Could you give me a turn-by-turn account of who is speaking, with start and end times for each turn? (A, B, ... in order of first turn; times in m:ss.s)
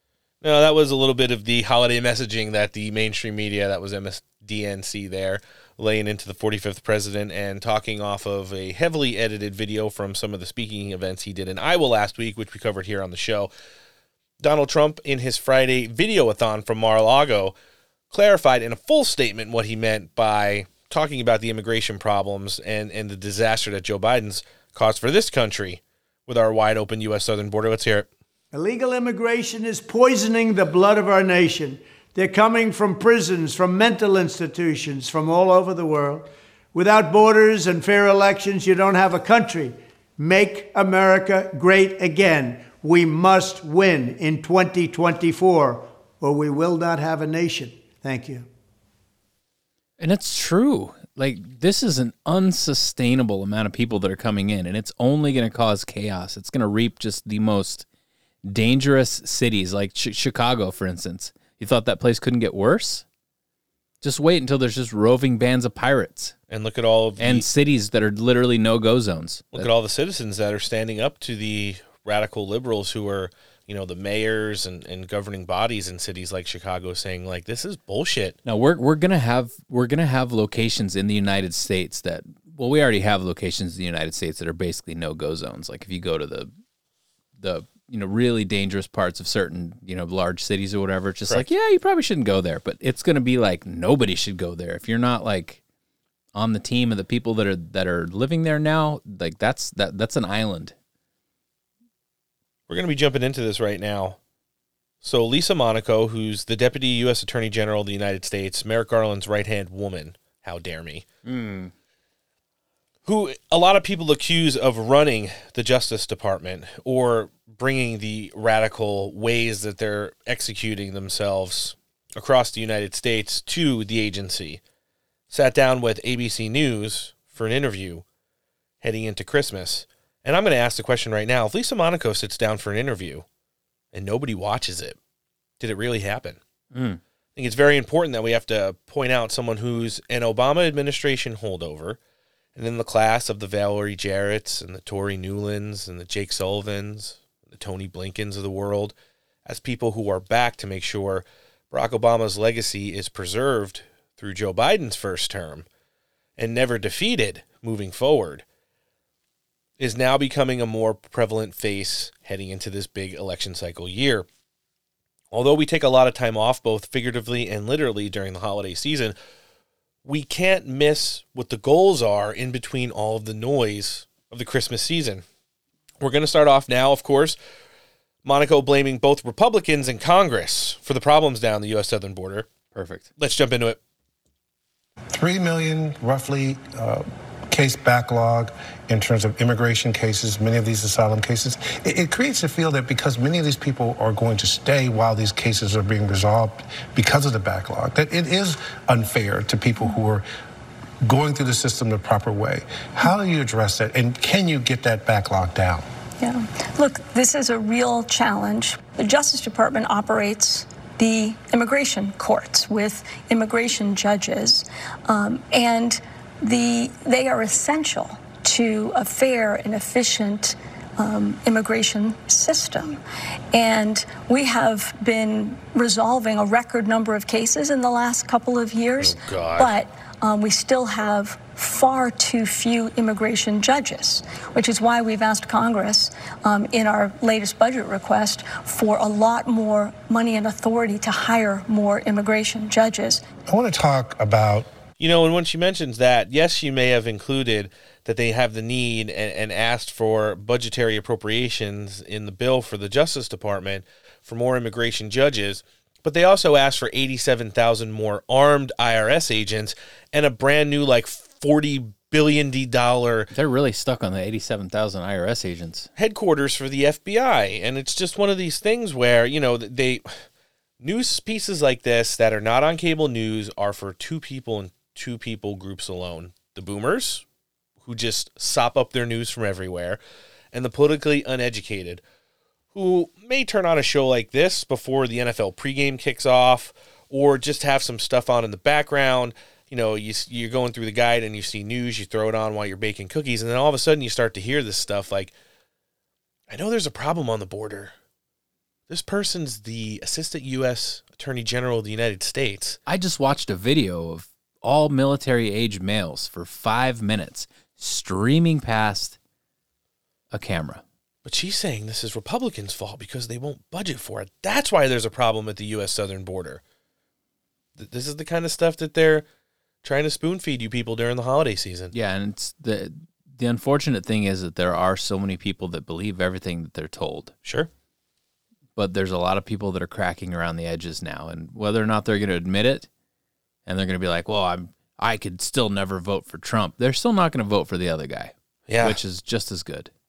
0:00.4-0:13.5 A
0:14.4-0:17.5 A
0:18.1-0:28.1 A
0:28.5-0:48.5 B
0:50.0-0:57.8 C
0:58.4-1:03.0 C
1:04.0-1:06.3 C
1:06.5-1:07.5 A
1:07.2-1:09.7 C
1:09.5-1:18.4 A
1:18.4-1:26.5 C
1:27.4-1:35.6 C
1:36.3-1:40.7 C
1:42.7-1:44.2 A
1:45.0-1:51.0 A
1:51.2-1:51.7 C
1:53.0-2:04.6 A
2:05.3-2:08.0 A
2:08.8-2:13.2 A
2:13.9-2:15.0 A
2:15.6-2:16.4 A
2:16.7-2:17.0 C
2:17.4-2:22.0 A
2:22.6-2:28.9 A
2:29.4-2:35.6 A
2:36.4-2:38.4 A
2:39.8-2:44.3 A
2:45.3-2:49.2 A
2:50.0-2:55.2 A
2:56.0-2:57.4 A
2:58.2-3:02.5 A
3:02.7-3:03.0 C
3:03.2-3:03.8 A
3:05.1-3:20.2 D
3:21.0-3:25.8 D
3:26.2-3:43.0 E
3:43.5-4:03.2 E
3:49.0-3:49.7 A
4:03.5-4:04.7 D
4:05.0-4:23.3 A
4:23.3-4:25.9 C
4:26.0-4:30.2 A
4:30.8-4:37.2 A
4:37.8-4:40.0 A
4:40.5-4:42.0 A
4:42.7-4:55.3 A
4:56.5-4:57.9 A
4:58.9-5:02.8 A
5:02.9-5:09.2 C
5:10.3-5:10.8 C
5:11.2-5:16.6 A
5:17.8-5:19.2 A
5:19.8-5:21.9 A
5:21.9-5:27.3 C
5:28.8-5:32.9 C
5:33.6-5:39.9 C
5:38.7-5:39.0 A